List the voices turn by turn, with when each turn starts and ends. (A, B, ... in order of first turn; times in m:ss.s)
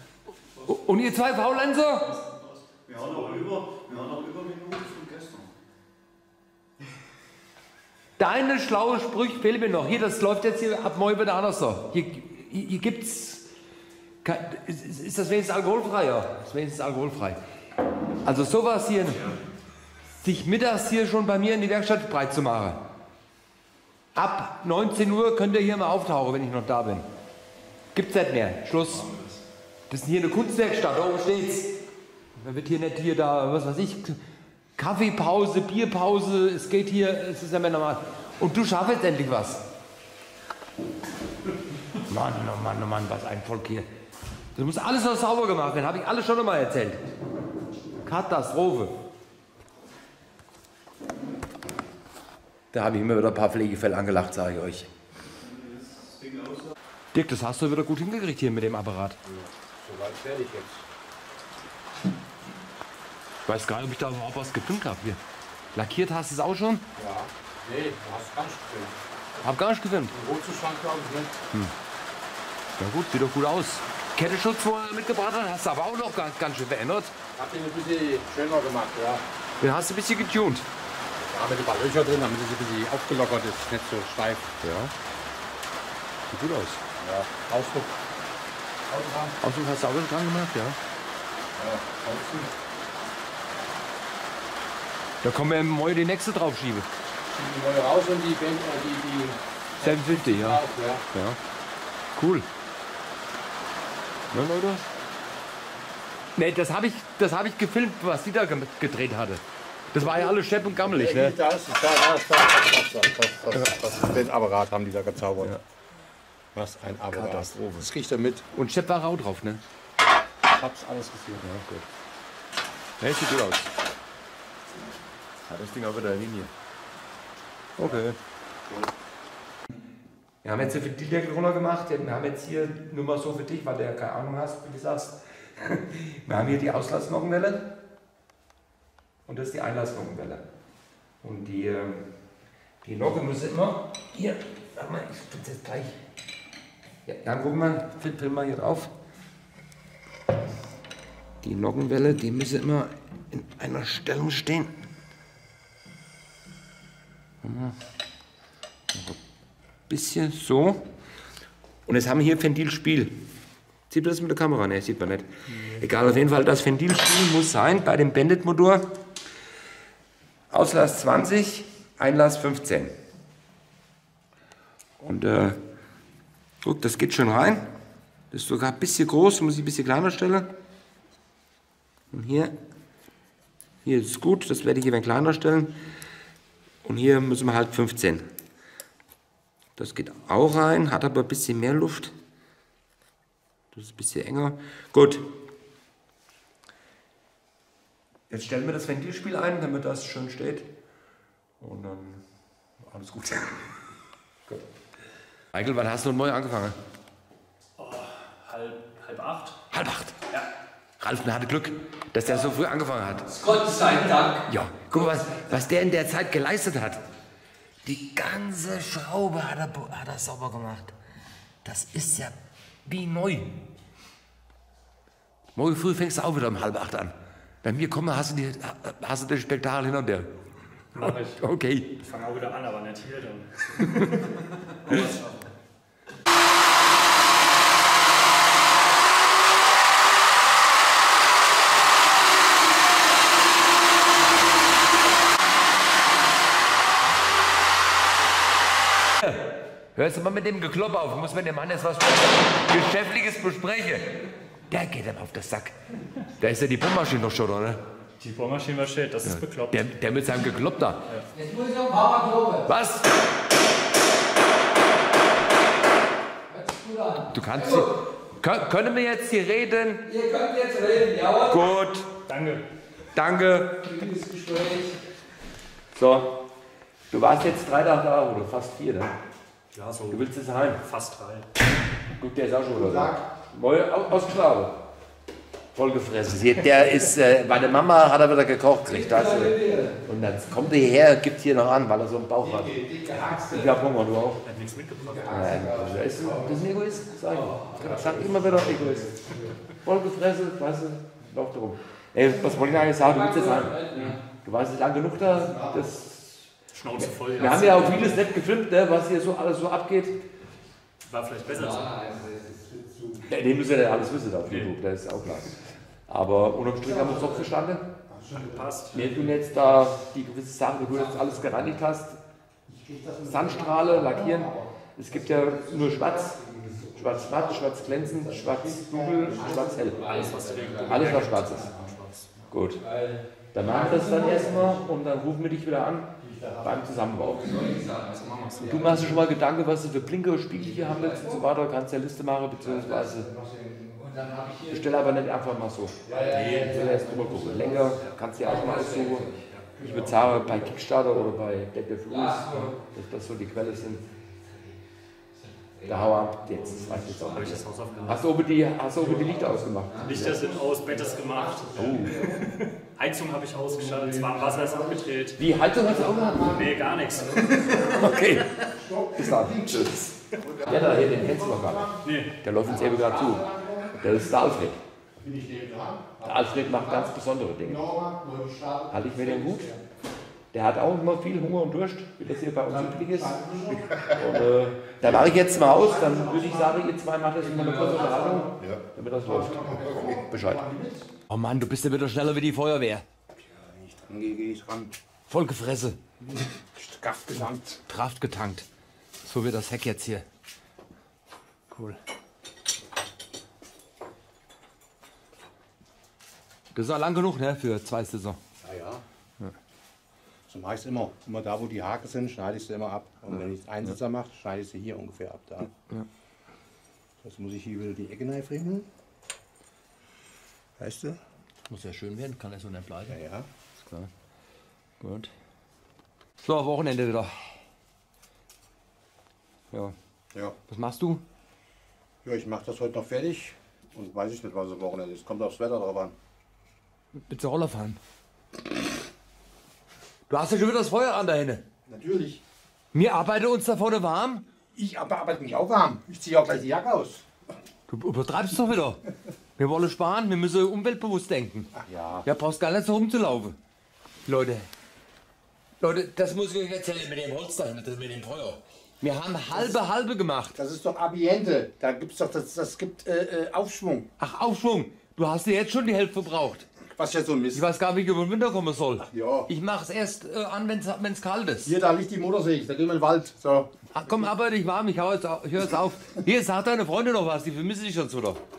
0:00.6-0:02.2 A
0:02.9-0:05.5 B
0:03.0-0:03.6 C
0:08.2-0:13.5 A
0:14.2-0:17.4 A
0:18.2-0:19.4 A
0:20.2-0:22.8 A
0:24.1-0:27.1 A
0:27.9-0:29.1 A
0:29.9-0:31.8 A
0:32.4-0:34.2 A
0:34.8-0:39.6 A
0:42.0-0:43.9 A
0:44.5-0:47.0 A
0:48.0-0:48.9 A
0:52.7-0:54.9 A
0:57.1-0:59.2 A
0:59.2-1:00.8 D
1:03.4-1:05.2 A
1:05.7-1:06.8 A
1:07.0-1:09.0 D
1:09.4-1:10.1 A
1:10.1-1:11.4 D
1:12.8-1:17.1 A
1:17.3-1:19.2 D
1:19.6-1:20.6 A
1:21.2-1:24.5 D
1:24.6-1:24.9 A
1:26.3-1:26.8 A
1:27.0-1:28.0 D
1:28.9-1:29.4 D
1:29.4-1:30.8 A
1:31.5-1:32.5 D
1:35.2-1:36.9 A
1:37.3-1:41.0 D
1:39.8-1:41.4 A
1:42.1-1:42.5 A
1:44.3-1:44.9 A
1:46.3-1:51.4 A
1:50.0-1:55.6 D
1:56.5-1:58.4 D
1:57.1-1:57.9 A
1:58.5-1:59.6 A
2:00.4-2:01.4 D
2:01.4-2:01.8 A
2:03.0-2:03.7 A
2:05.4-2:06.5 A
2:07.8-2:08.2 A
2:08.6-2:08.9 D
2:10.4-2:17.7 A
2:19.2-2:20.4 A
2:21.2-2:22.1 A
2:22.8-2:26.0 A
2:27.0-2:28.9 A
2:31.4-2:34.8 A
2:37.4-2:37.8 A
2:38.9-2:39.2 A
2:39.9-2:40.9 A
2:41.8-2:43.2 A
2:43.9-2:49.0 A
2:50.5-2:52.9 A
2:55.0-2:55.6 A
2:56.6-2:57.7 A
2:58.3-3:00.5 A
3:02.1-3:02.5 A
3:03.8-3:05.8 A
3:06.8-3:08.3 A
3:09.8-3:12.1 A
3:13.7-3:15.3 A
3:18.3-3:20.7 A
3:21.6-3:22.2 A
3:22.8-3:23.8 A
3:25.5-3:26.8 A
3:27.8-3:29.6 C
3:29.7-3:30.2 A
3:31.0-3:33.3 A
3:33.3-3:34.4 E
3:34.5-3:37.0 A
3:37.8-3:40.9 A
3:41.6-3:43.6 A
3:45.5-3:50.3 A
3:50.9-3:51.4 C
3:50.9-3:51.9 A
3:52.0-3:55.5 C
3:53.8-3:54.2 A
4:09.9-4:14.2 A
4:14.7-4:15.8 A
4:16.4-4:17.8 A
4:18.2-4:19.8 C
4:19.2-4:21.0 A
4:21.3-4:22.7 E
4:22.6-4:23.1 A
4:26.5-4:28.0 E
4:27.3-4:30.1 A
4:30.0-4:31.6 E
4:31.4-4:32.1 A
4:32.2-4:32.6 C
4:33.1-4:33.9 A
4:33.8-4:35.0 E
4:35.9-4:36.5 A
4:37.1-4:39.1 A
4:39.7-4:41.5 C
4:40.1-4:40.8 A
4:42.2-4:44.8 A
4:42.7-4:43.2 D
4:45.7-4:52.8 A
4:48.9-4:50.0 E
4:52.4-4:53.8 D
4:53.3-4:54.4 A
4:54.4-4:55.7 C
4:55.0-4:56.6 D
4:55.3-4:59.1 A
4:57.3-4:59.4 E
4:57.8-4:59.3 D
4:59.8-5:10.2 A
5:02.2-5:04.2 E
5:05.4-5:05.8 D
5:06.7-5:08.2 C
5:07.4-5:07.7 E
5:11.0-5:11.9 C
5:11.5-5:12.3 E
5:12.2-5:13.3 D
5:13.2-5:17.9 A
5:14.4-5:14.7 C
5:16.8-5:17.5 D
5:18.1-5:19.4 D
5:18.3-5:19.1 C
5:18.9-5:22.2 A
5:21.0-5:21.7 E
5:22.7-5:31.7 D
5:23.2-5:26.4 A
5:26.9-5:30.3 A
5:30.0-5:32.3 C
5:30.8-5:31.7 A
5:32.5-5:32.8 A
5:32.9-5:34.5 E
5:33.5-5:37.8 A
5:33.7-5:34.8 D
5:36.2-5:39.2 D
5:37.4-5:39.1 E
5:38.6-5:43.3 A
5:40.6-5:41.4 E
5:42.6-5:44.5 D
5:44.0-5:44.9 E
5:44.7-5:49.3 A
5:46.0-5:48.0 D
5:46.1-5:49.5 E
5:49.7-5:50.7 D
5:49.8-5:54.0 A
5:52.1-5:52.8 E
5:55.7-5:58.2 E
5:55.8-6:00.3 A
5:57.3-5:58.3 C
5:58.9-6:00.6 E
6:00.0-6:05.4 C
6:00.1-6:02.5 D
6:01.8-6:02.3 A
6:03.6-6:05.1 D
6:05.4-6:06.6 A
6:05.7-6:12.1 D
6:06.4-6:08.0 C
6:07.6-6:14.8 A
6:12.0-6:12.3 C
6:12.6-6:14.1 D
6:15.2-6:19.8 D
6:16.2-6:17.8 A
6:18.9-6:19.7 A
6:20.5-6:30.6 A
6:22.7-6:24.5 D
6:25.0-6:26.9 D
6:27.5-6:28.4 E
6:27.5-6:31.1 D
6:31.3-6:33.0 A
6:33.4-6:34.9 D
6:35.3-6:36.0 A
6:36.2-6:37.8 D
6:37.9-6:38.7 A
6:39.2-6:40.2 A
6:41.7-6:42.0 A
6:46.7-6:48.4 A
6:48.6-6:49.0 D
6:50.5-6:55.7 D
6:57.2-6:58.9 D
7:00.8-7:01.2 D
7:01.7-7:03.2 A
7:03.1-7:03.5 D
7:03.8-7:04.1 A
7:05.0-7:05.3 A
7:06.4-7:07.6 A
7:10.7-7:11.2 A
7:12.2-7:16.2 D
7:17.1-7:18.0 A
7:20.3-7:21.6 A
7:21.8-7:22.4 D
7:22.9-7:24.4 A
7:24.7-7:27.2 D
7:27.9-7:29.0 A
7:29.6-7:31.7 A
7:31.7-7:32.3 D
7:32.2-7:33.6 A
7:34.2-7:34.7 A
7:35.8-7:40.6 A
7:40.6-7:44.1 D
7:44.2-7:46.7 A
7:46.9-7:47.7 D
7:47.5-7:51.7 A
7:49.0-7:49.5 D
7:51.6-7:54.2 D
7:53.9-7:58.4 A